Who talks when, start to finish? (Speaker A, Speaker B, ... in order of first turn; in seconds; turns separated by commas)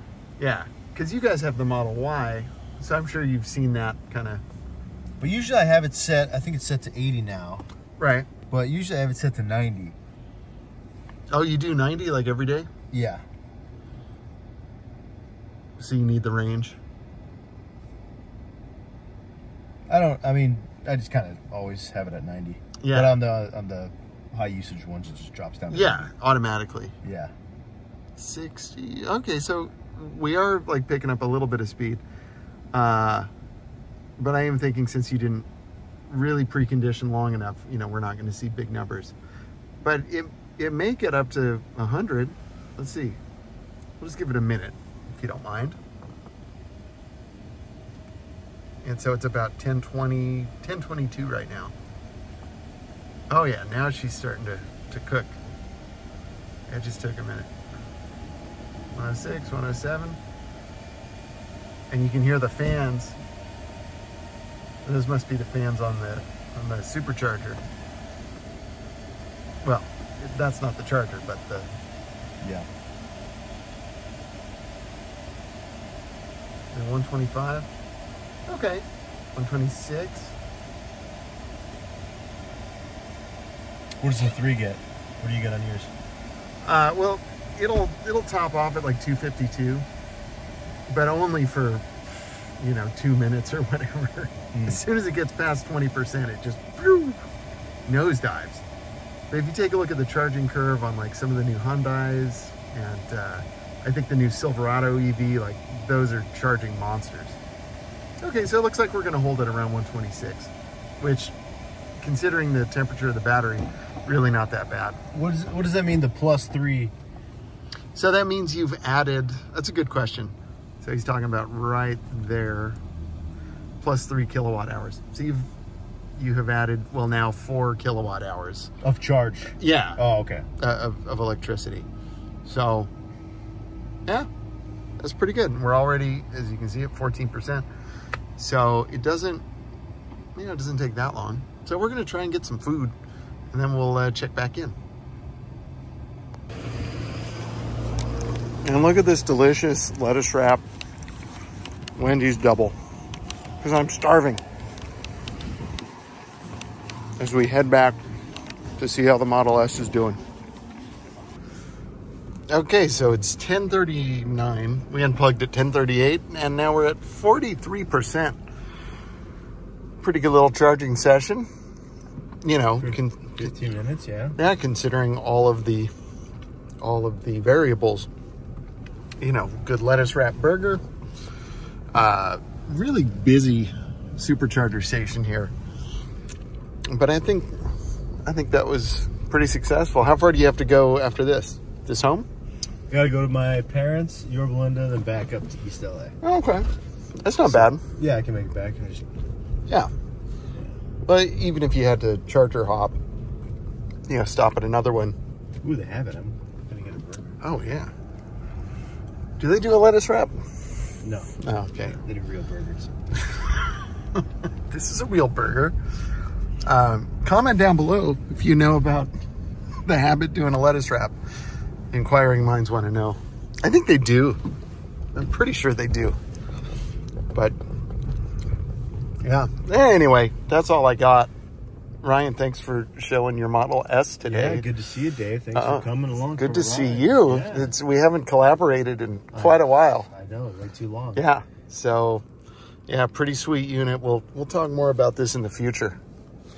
Speaker A: 0.4-4.4, Speaker B: 5.2-7.7, Speaker A: 8.0-8.3, Speaker B: 8.5-9.9, Speaker A: 11.3-12.7, Speaker B: 12.9-13.2, Speaker A: 15.8-16.8, Speaker B: 19.9-26.1, Speaker A: 22.8-23.2, Speaker A: 25.7-26.9, Speaker B: 27.0-27.3, Speaker A: 28.2-32.0, Speaker A: 32.7-33.3, Speaker A: 34.2-35.5, Speaker A: 36.1-39.1, Speaker A: 39.8-43.2, Speaker A: 44.0-45.8, Speaker A: 48.8-51.7, Speaker A: 53.3-55.4, Speaker A: 56.7-57.5, Speaker A: 58.9-60.2, Speaker A: 61.9-63.2, Speaker A: 64.8-67.6, Speaker A: 69.6-71.7, Speaker B: 72.4-72.7, Speaker A: 76.7-77.7, Speaker A: 78.5-78.8, Speaker A: 79.3-80.3, Speaker B: 84.0-85.9, Speaker A: 86.6-89.8, Speaker A: 90.9-97.2, Speaker B: 94.5-94.8, Speaker A: 97.8-98.6, Speaker A: 99.3-107.4, Speaker A: 108.2-111.3, Speaker A: 112.0-115.0, Speaker B: 115.1-116.9, Speaker A: 117.9-122.8, Speaker A: 123.8-125.5, Speaker A: 126.2-128.7, Speaker B: 128.8-130.4, Speaker A: 129.6-130.0, Speaker A: 130.6-131.9, Speaker A: 132.4-132.9, Speaker A: 135.0-137.7, Speaker A: 138.4-139.4, Speaker A: 140.3-142.9, Speaker A: 143.5-144.7, Speaker A: 148.6-150.6, Speaker A: 151.9-152.8, Speaker A: 153.6-154.4, Speaker A: 157.2-158.0, Speaker A: 158.8-160.2, Speaker A: 162.5-168.4, Speaker A: 170.0-171.5, Speaker A: 172.4-173.4, Speaker B: 172.8-174.4, Speaker A: 174.3-175.9, Speaker A: 176.8-178.1, Speaker A: 179.2-180.8, Speaker A: 181.9-185.5, Speaker A: 186.9-187.5, Speaker A: 188.2-192.2, Speaker B: 192.9-196.2, Speaker A: 196.2-196.7, Speaker A: 197.2-197.8, Speaker B: 197.4-199.1, Speaker A: 201.1-203.0, Speaker A: 204.1-205.2, Speaker B: 205.6-207.4, Speaker A: 207.4-207.9, Speaker A: 209.4-210.4, Speaker B: 211.0-212.9, Speaker A: 211.4-212.0, Speaker A: 213.3-213.6, Speaker A: 214.7-215.8, Speaker A: 216.7-219.1, Speaker A: 219.8-221.2, Speaker A: 221.9-224.4, Speaker A: 225.1-226.2, Speaker A: 229.2-231.3, Speaker A: 232.0-234.7, Speaker B: 234.2-237.7, Speaker A: 235.5-240.1, Speaker B: 239.3-241.2, Speaker A: 241.1-242.2, Speaker A: 242.9-246.0